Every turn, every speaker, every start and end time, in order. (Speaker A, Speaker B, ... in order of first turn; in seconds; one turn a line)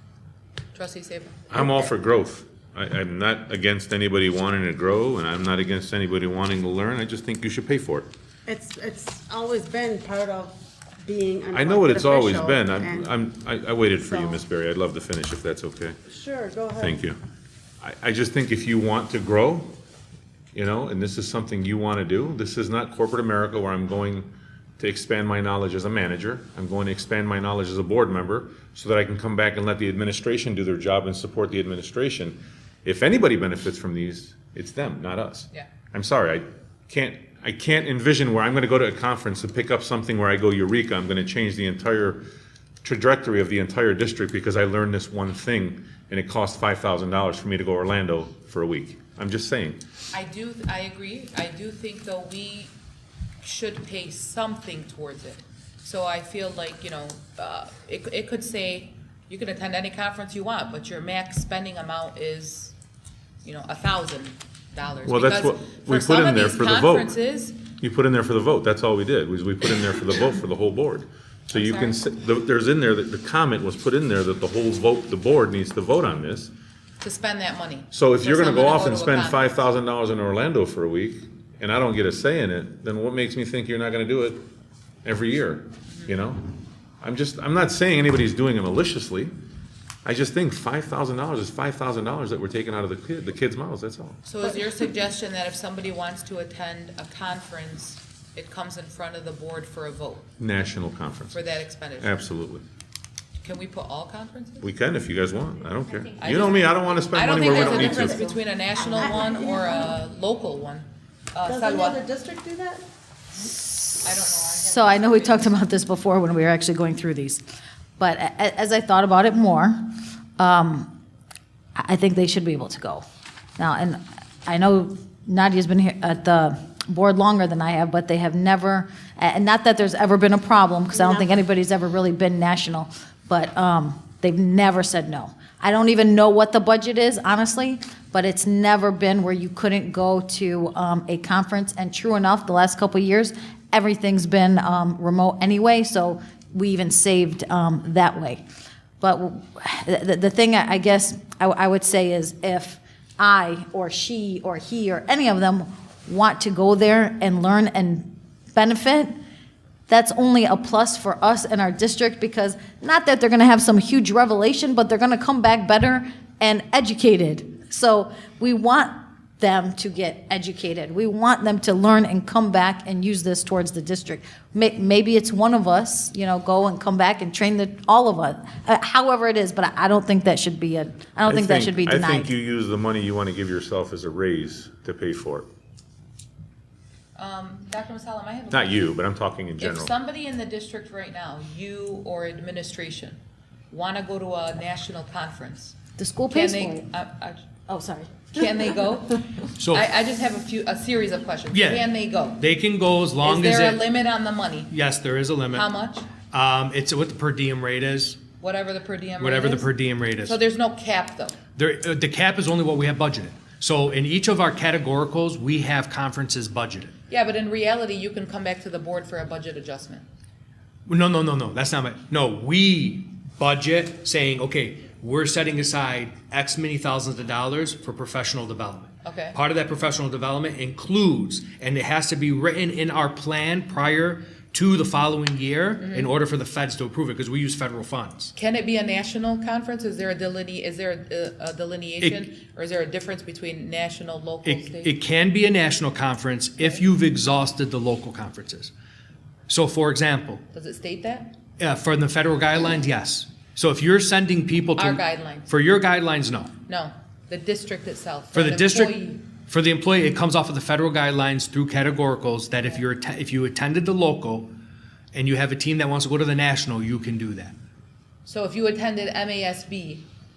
Speaker A: 0.7-1.4
Speaker B: 1.5-8.1
Speaker C: 1.6-1.9
Speaker C: 8.5-13.1
Speaker B: 11.5-16.0
Speaker C: 14.1-14.4
Speaker C: 16.1-17.0
Speaker B: 16.8-17.2
Speaker B: 17.8-19.7
Speaker B: 20.5-42.2
Speaker B: 42.8-49.8
Speaker A: 50.1-52.8
Speaker A: 53.4-62.8
Speaker A: 63.4-67.6
Speaker B: 65.0-67.1
Speaker B: 67.7-76.5
Speaker A: 71.5-72.0
Speaker A: 77.0-79.7
Speaker B: 77.9-84.4
Speaker B: 85.0-86.4
Speaker A: 85.9-86.2
Speaker B: 87.0-89.3
Speaker B: 90.0-94.2
Speaker A: 94.2-100.3
Speaker B: 100.4-102.6
Speaker A: 101.3-102.2
Speaker A: 103.4-104.7
Speaker B: 104.6-108.2
Speaker A: 106.2-112.0
Speaker C: 107.3-110.0
Speaker C: 111.4-112.8
Speaker A: 114.0-115.6
Speaker D: 114.5-117.4
Speaker D: 118.0-119.8
Speaker D: 120.4-120.9
Speaker D: 121.8-123.0
Speaker D: 123.6-148.4
Speaker C: 130.9-131.5
Speaker D: 149.0-159.1
Speaker D: 159.9-182.3
Speaker B: 181.3-185.5
Speaker A: 187.2-189.0
Speaker B: 188.5-189.9
Speaker A: 189.6-193.2
Speaker A: 193.7-195.8
Speaker D: 196.0-196.9
Speaker A: 196.3-197.5
Speaker D: 197.7-198.6
Speaker A: 198.3-202.4
Speaker E: 199.6-199.9
Speaker E: 201.5-203.8
Speaker A: 203.2-204.7
Speaker E: 204.7-208.2
Speaker A: 205.5-206.1
Speaker A: 208.4-211.4
Speaker E: 209.2-210.4
Speaker E: 211.6-216.9
Speaker A: 217.1-220.1
Speaker E: 220.9-238.3
Speaker A: 229.0-229.4
Speaker A: 235.8-236.1
Speaker A: 238.4-244.9
Speaker E: 244.4-248.7
Speaker A: 246.6-246.8
Speaker E: 249.5-250.4
Speaker A: 250.5-251.3
Speaker E: 251.6-256.6
Speaker A: 254.8-255.5
Speaker A: 256.6-259.2
Speaker E: 258.3-264.5
Speaker E: 265.1-267.6
Speaker A: 268.3-270.1